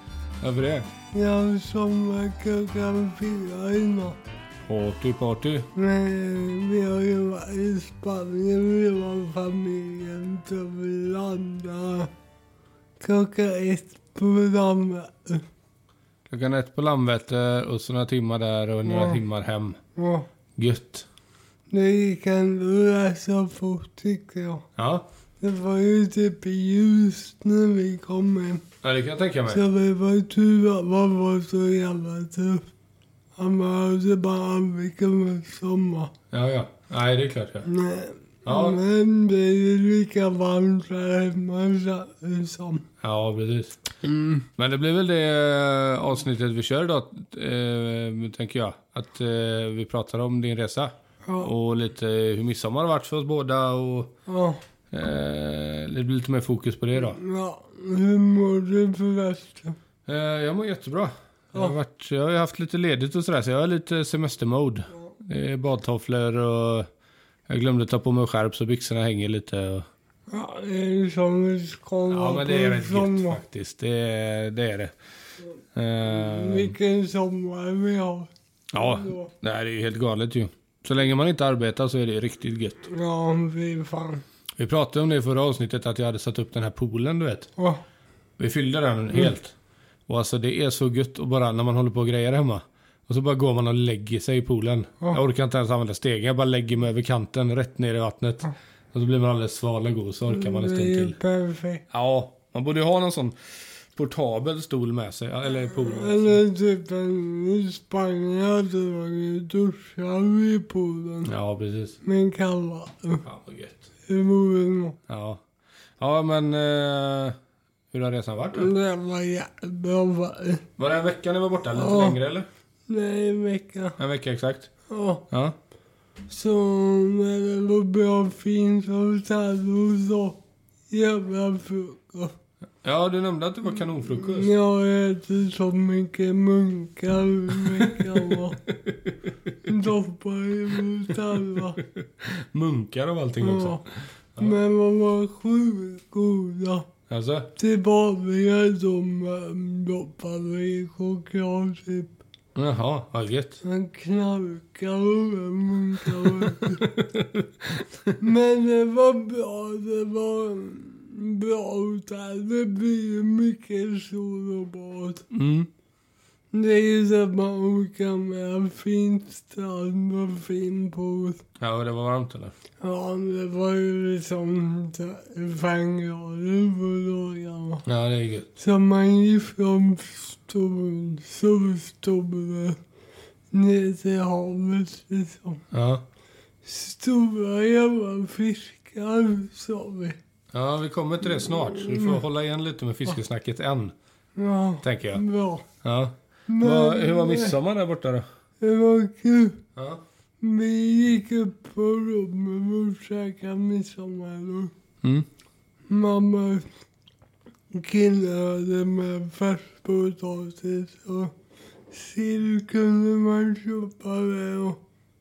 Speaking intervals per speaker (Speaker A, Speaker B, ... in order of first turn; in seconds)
Speaker A: 0.4-0.9, 4.7-5.7, 16.3-19.8, 20.6-21.1, 24.8-25.1, 28.8-29.6, 36.3-37.7, 38.5-38.8, 43.0-43.8, 44.6-54.1, 54.9-57.2, 60.0-66.9, 67.5-69.9, 72.1-74.9, 75.7-76.8, 78.7-82.8, 84.6-87.5, 88.4-89.5, 90.1-101.2, 101.9-106.4, 111.2-112.0, 113.2-113.8, 115.1-115.4, 116.0-117.4, 117.9-118.7, 120.8-122.5, 124.0-124.7, 125.3-125.6, 132.8-134.5, 137.7-139.8, 141.8-144.6, 147.1-147.5, 152.6-153.6, 156.2-158.2, 165.3-165.7, 171.6-172.6, 177.8-178.5, 185.7-186.0, 190.5-193.9, 194.8-195.2, 195.8-198.2, 199.8-200.0, 205.0-205.3
Speaker B: 1.1-4.2, 5.8-12.1, 13.0-15.4, 18.8-19.2, 19.9-20.3, 21.7-24.7, 25.4-28.6, 29.5-32.7, 33.4-36.1, 37.6-42.9, 44.0-44.5, 51.3-51.5, 54.3-54.6, 57.0-59.8, 70.3-73.4, 76.1-79.3, 82.9-84.2, 100.3-101.8, 105.6-111.3, 112.0-113.2, 114.1-115.0, 118.5-120.7, 121.7-122.2, 122.9-124.0, 124.9-125.2, 126.3-132.3, 134.0-138.6, 139.7-141.8, 143.4-143.8, 144.4-146.9, 147.6-152.2, 153.6-156.9, 158.2-165.2, 166.5-171.4, 172.8-177.8, 178.6-182.8, 183.5-185.6, 186.6-190.2, 191.8-192.2, 194.4-195.7, 196.5-197.6, 198.6-199.6, 200.4-204.7, 205.9-206.7, 207.7-211.3, 211.9-214.8